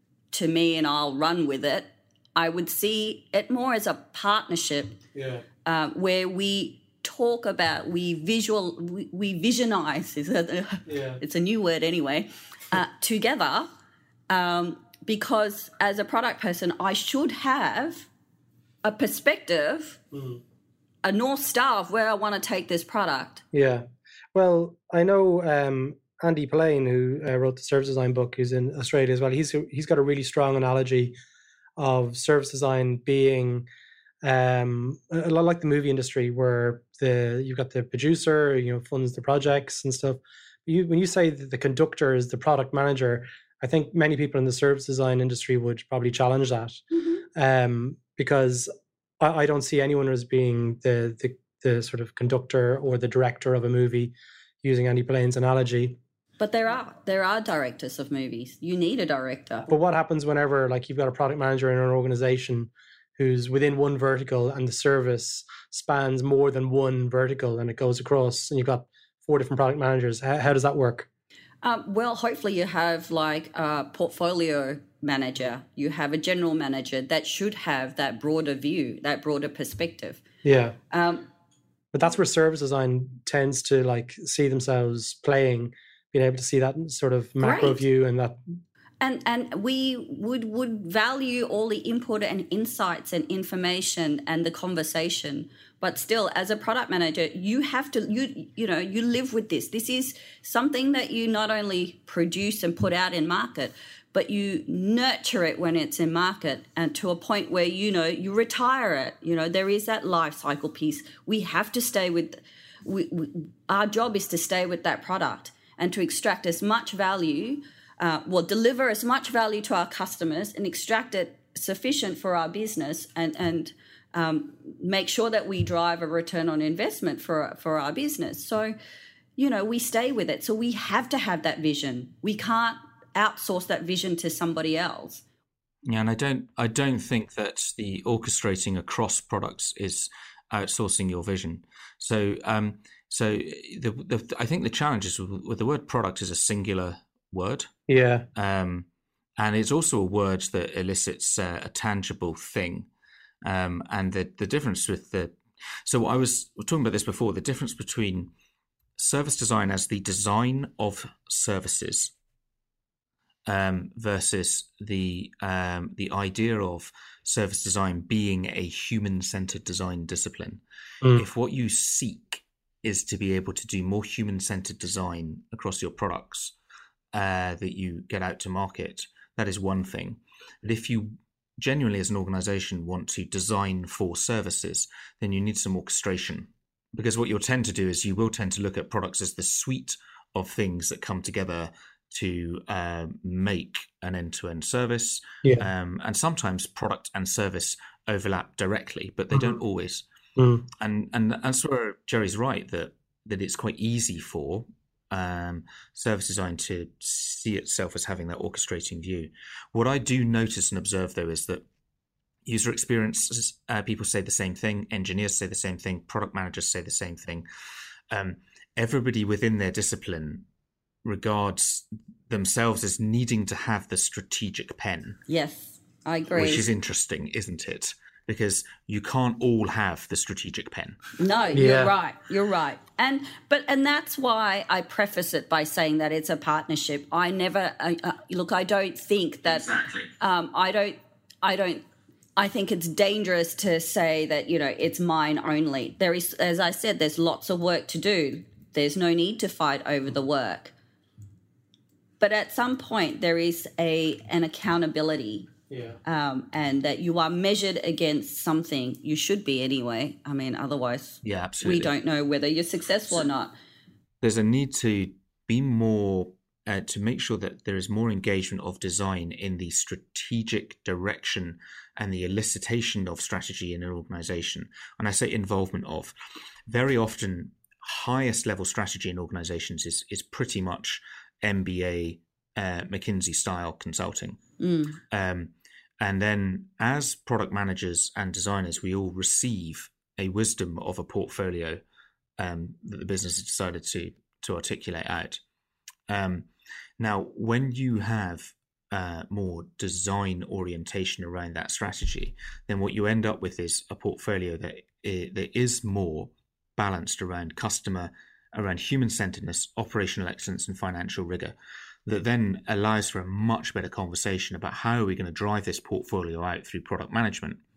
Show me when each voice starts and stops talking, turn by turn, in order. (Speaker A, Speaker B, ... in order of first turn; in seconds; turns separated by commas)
Speaker A: 0.3-5.0, Speaker B: 5.1-5.4, Speaker A: 5.6-13.7, Speaker B: 10.9-11.2, Speaker A: 14.3-18.1, Speaker A: 18.8-20.0, Speaker B: 20.1-20.4, Speaker A: 21.0-23.4, Speaker B: 23.5-31.1, Speaker B: 31.8-33.7, Speaker B: 34.2-46.8, Speaker B: 47.4-56.0, Speaker A: 56.4-59.7, Speaker B: 59.7-71.1, Speaker A: 71.6-80.2, Speaker B: 80.5-80.8, Speaker A: 80.9-81.3, Speaker B: 81.9-88.4, Speaker A: 87.4-87.8, Speaker A: 89.0-128.7, Speaker A: 129.4-135.2, Speaker C: 135.9-147.7, Speaker B: 147.9-148.3, Speaker C: 148.3-148.9, Speaker C: 149.4-152.9, Speaker C: 153.4-158.3, Speaker C: 159.0-162.1, Speaker C: 163.4-170.6, Speaker C: 171.1-176.5, Speaker C: 177.1-200.1, Speaker B: 200.4-200.7, Speaker C: 200.8-211.6, Speaker C: 212.4-217.4, Speaker C: 218.1-220.4, Speaker C: 221.1-225.2, Speaker A: 225.3-226.7, Speaker C: 226.3-231.0, Speaker A: 231.2-241.8, Speaker B: 231.5-231.9, Speaker A: 242.4-250.7, Speaker A: 252.2-255.5, Speaker B: 255.7-256.0, Speaker A: 256.0-263.5, Speaker C: 261.2-261.9, Speaker C: 264.2-276.1, Speaker C: 276.7-284.4, Speaker A: 284.6-285.0, Speaker C: 285.1-291.8, Speaker C: 292.4-295.4, Speaker C: 296.1-311.6, Speaker C: 312.1-317.6